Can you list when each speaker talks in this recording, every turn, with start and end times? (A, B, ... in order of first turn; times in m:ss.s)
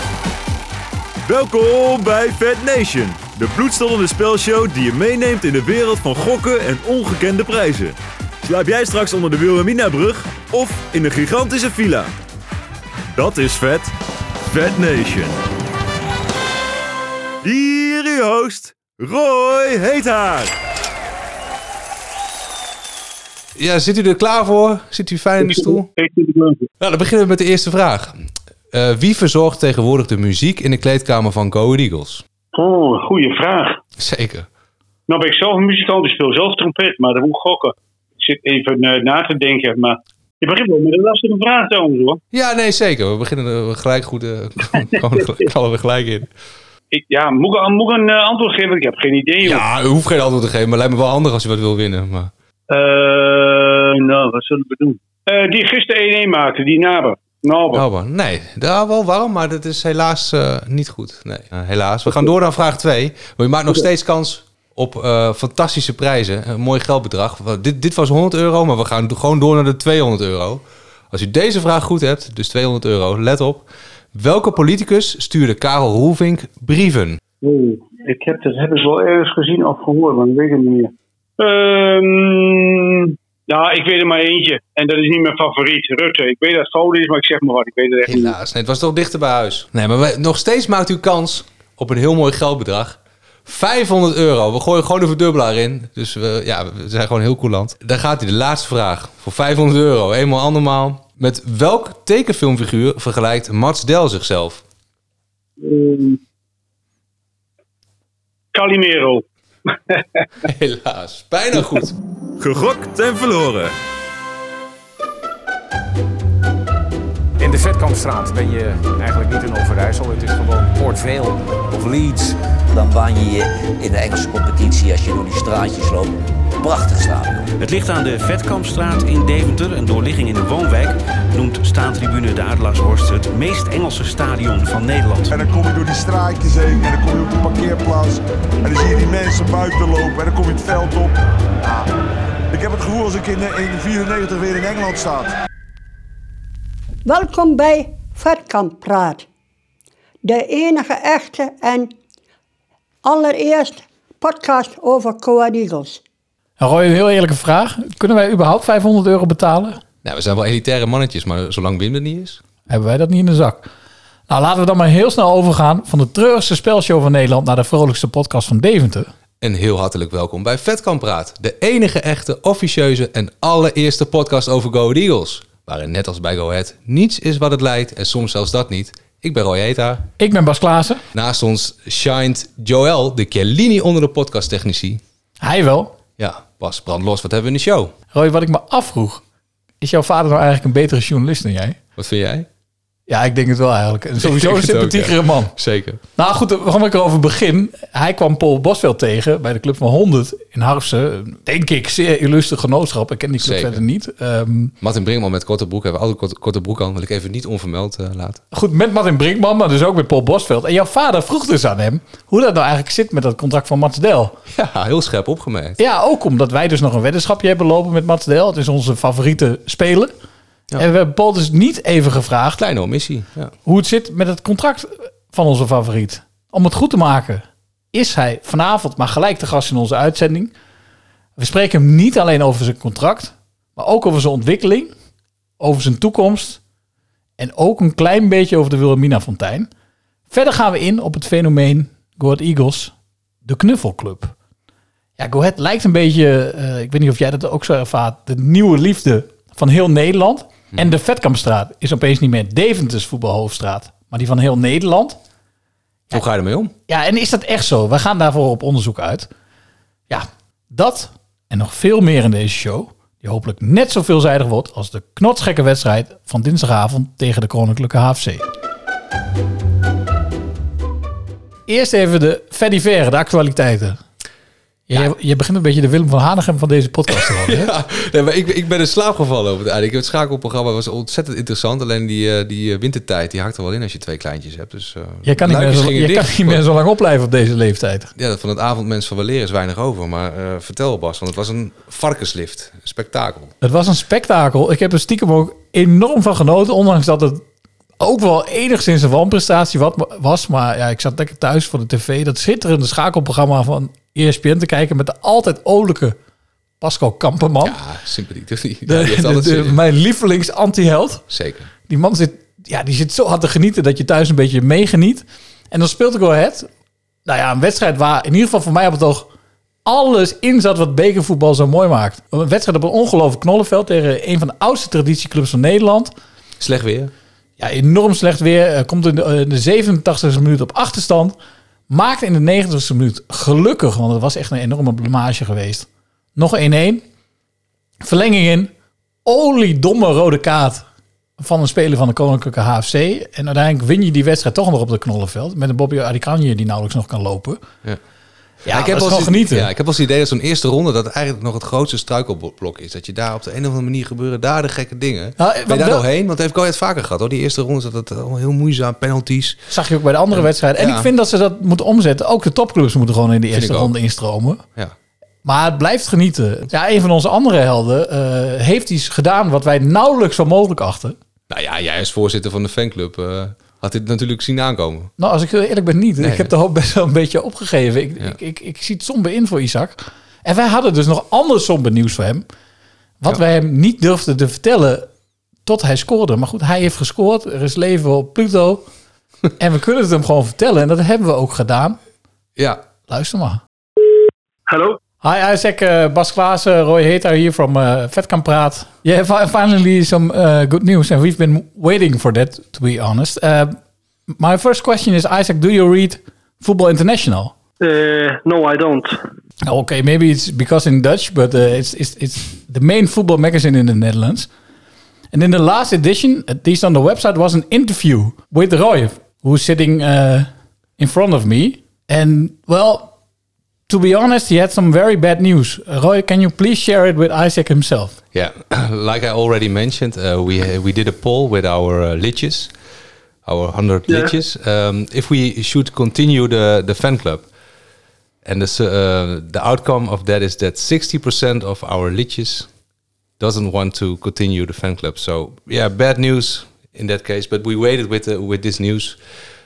0:01.2-0:12.1 A
0:13.1-0:13.9 A
0:14.5-0:15.4 A
0:17.4-0:20.5 A
0:23.6-0:25.9 B
0:25.4-0:26.6 C
0:26.8-0:28.2 B
0:28.7-0:32.2 B
0:32.5-0:33.8 C
0:34.0-0:34.5 B
0:35.1-0:42.2 C
0:42.3-0:46.3 B
0:46.9-0:49.6 C
0:49.4-0:52.3 B
0:52.7-0:57.8 C
0:57.7-1:17.2 B
1:17.4-1:28.3 C
1:28.1-1:44.6 B
1:45.6-1:46.2 C
1:48.5-1:49.2 C
1:49.9-1:50.2 C
1:50.5-1:52.0 B
1:52.4-1:53.7 A
1:57.4-2:02.2 D
2:02.0-2:07.5 E
2:07.6-2:15.3 F
2:15.3-2:21.9 G
2:22.5-2:25.3 G
2:27.0-2:29.3 H
2:30.2-2:31.9 H
2:33.0-2:36.0 H
2:36.6-2:39.8 I
2:40.0-2:42.4 B
2:42.7-2:43.7 I
2:44.3-2:49.1 I
2:49.4-3:00.1 B
3:00.2-3:01.0 I
3:01.1-3:05.0 B
3:05.4-3:06.0 I
3:06.2-3:07.9 B
3:08.1-3:09.2 I
3:09.8-3:11.8 I
3:12.0-3:12.5 B
3:13.1-3:15.5 I
3:14.2-3:16.0 B
3:16.2-3:24.7 I
3:23.4-3:23.8 B
3:24.8-3:28.4 B
3:28.5-3:34.4 I
3:34.5-3:35.8 B
3:35.8-3:40.1 I
3:40.8-3:42.6 I
3:42.6-3:43.5 B
3:43.6-3:50.5 I
3:51.4-3:54.9 I
3:55.6-3:56.6 I
3:57.4-3:59.7 I
4:00.3-4:02.9 I
4:03.4-4:04.3 I
4:05.2-4:15.2 I
4:16.1-4:16.7 B
4:16.9-4:19.3 I
4:20.1-4:28.4 I
4:31.7-4:34.0 I
4:34.9-4:37.7 I
4:37.1-4:46.6 B
4:45.2-4:48.1 I
4:48.2-4:53.5 B
4:53.6-4:57.4 I
4:58.0-5:06.2 I
5:06.8-5:07.8 I
5:07.6-5:09.8 B
5:08.9-5:11.2 I
5:11.3-5:11.7 B
5:11.9-5:16.7 I
5:17.3-5:19.3 I
5:19.8-5:26.1 I
5:26.6-5:27.1 B
5:27.6-5:31.3 I
5:31.9-5:37.0 I
5:38.0-5:38.7 I
5:39.2-5:40.8 I
5:41.4-5:47.6 I
5:48.7-5:49.7 I
5:48.7-5:59.6 B
5:55.4-5:56.0 I
5:59.7-6:04.6 I
6:00.3-6:01.1 B
6:03.5-6:03.9 B
6:05.4-6:11.2 I
6:11.5-6:15.1 B
6:15.2-6:22.4 I
6:16.2-6:16.5 B
6:23.2-6:25.1 I
6:25.7-6:28.8 I
6:29.6-6:32.0 I
6:33.1-6:33.6 I
6:34.7-6:35.0 J
6:35.2-6:43.8 I
6:44.4-6:47.5 I
6:47.8-6:49.2 J
6:49.7-6:54.5 I
6:55.3-7:03.1 I
7:03.9-7:08.2 I
7:08.3-7:12.7 B
7:13.5-7:17.5 B
7:14.1-7:14.3 J
7:18.4-7:22.7 B
7:23.4-7:29.2 B